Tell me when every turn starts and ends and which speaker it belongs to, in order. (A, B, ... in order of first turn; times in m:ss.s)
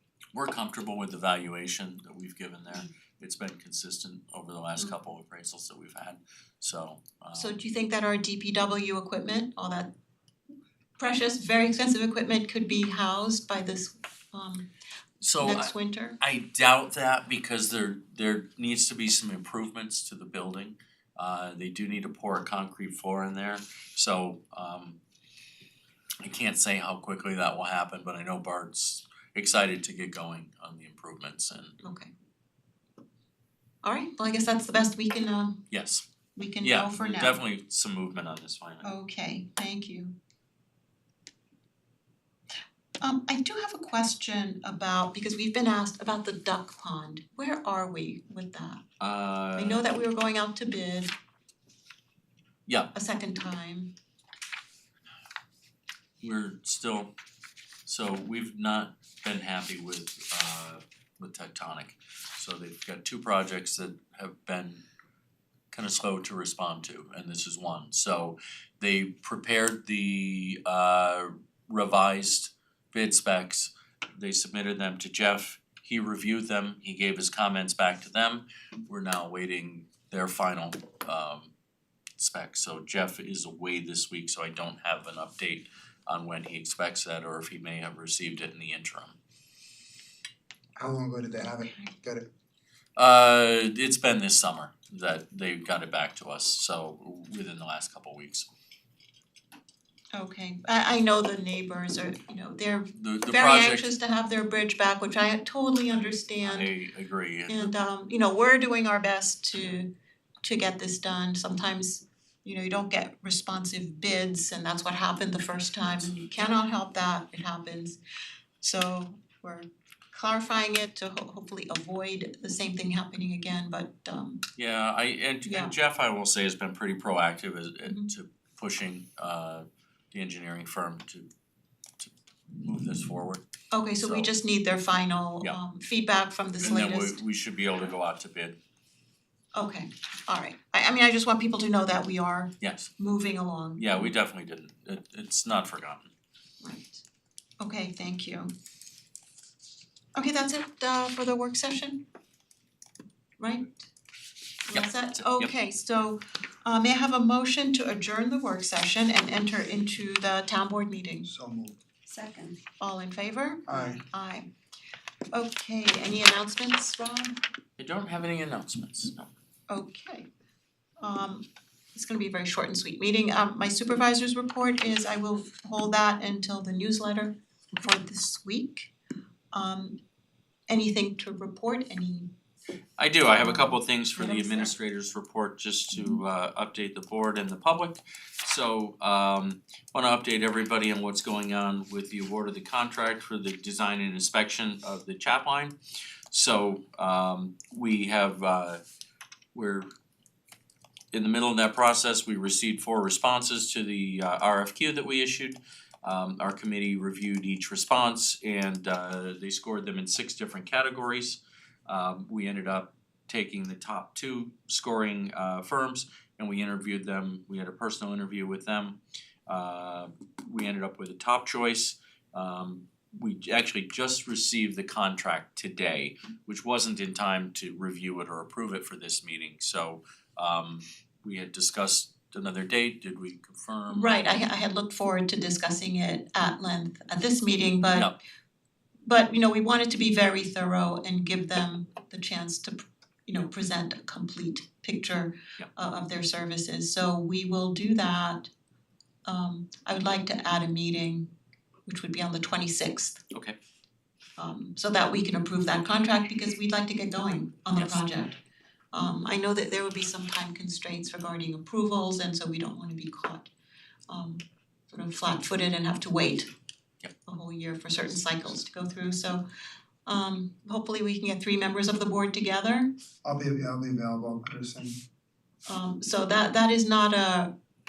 0:00.3-0:07.5 A
0:07.3-0:09.9 B
0:11.0-0:14.7 B
0:15.2-0:25.0 A
0:15.4-0:16.2 B
0:26.2-0:31.8 A
0:31.8-0:32.1 B
0:33.8-0:35.6 B
0:35.7-0:36.0 A
0:36.4-0:37.4 B
0:36.6-0:38.9 A
0:38.8-0:40.1 B
0:43.0-0:48.8 B
0:49.0-0:49.8 A
0:49.6-0:51.1 B
0:52.7-0:52.9 A
0:52.9-0:53.9 B
0:56.2-0:57.1 A
0:57.8-1:04.8 A
1:05.7-1:21.5 A
1:22.2-1:29.2 A
1:30.8-1:32.3 C
1:33.0-1:38.5 A
1:40.1-1:46.7 B
1:42.9-1:43.9 A
1:46.4-1:47.7 A
1:47.5-1:49.9 B
1:50.4-1:58.0 B
1:58.6-2:04.4 B
2:04.6-2:11.3 A
2:05.4-2:05.7 B
2:07.9-2:08.1 B
2:12.0-2:13.4 A
2:13.7-2:17.2 B
2:14.0-2:14.3 A
2:16.6-2:18.6 A
2:19.5-2:24.1 B
2:22.6-2:22.9 A
2:23.8-2:26.1 A
2:26.6-2:27.0 B
2:27.6-2:28.5 B
2:30.1-2:32.0 B
2:33.4-2:33.9 B
2:34.7-2:41.2 B
2:34.7-2:35.5 A
2:41.2-2:41.8 C
2:42.1-2:44.5 B
2:43.7-2:44.0 C
2:45.3-2:47.4 B
2:47.8-2:49.3 A
2:49.7-2:50.3 B
2:51.0-2:58.9 B
2:59.5-3:00.0 B
3:00.7-3:02.3 B
3:03.0-3:15.7 A
3:16.3-3:18.8 A
3:19.5-3:19.8 A
3:21.1-3:54.2 A
3:53.9-3:58.1 B
3:59.0-4:08.5 B
4:09.2-4:11.3 B
4:11.8-4:13.2 B
4:13.3-4:13.6 A
4:14.4-4:18.4 B
4:17.7-4:18.0 A
4:18.9-4:23.5 B
4:24.1-4:26.5 B
4:27.2-4:29.4 B
4:30.0-4:32.9 B
4:33.2-4:35.0 C
4:35.6-4:37.5 B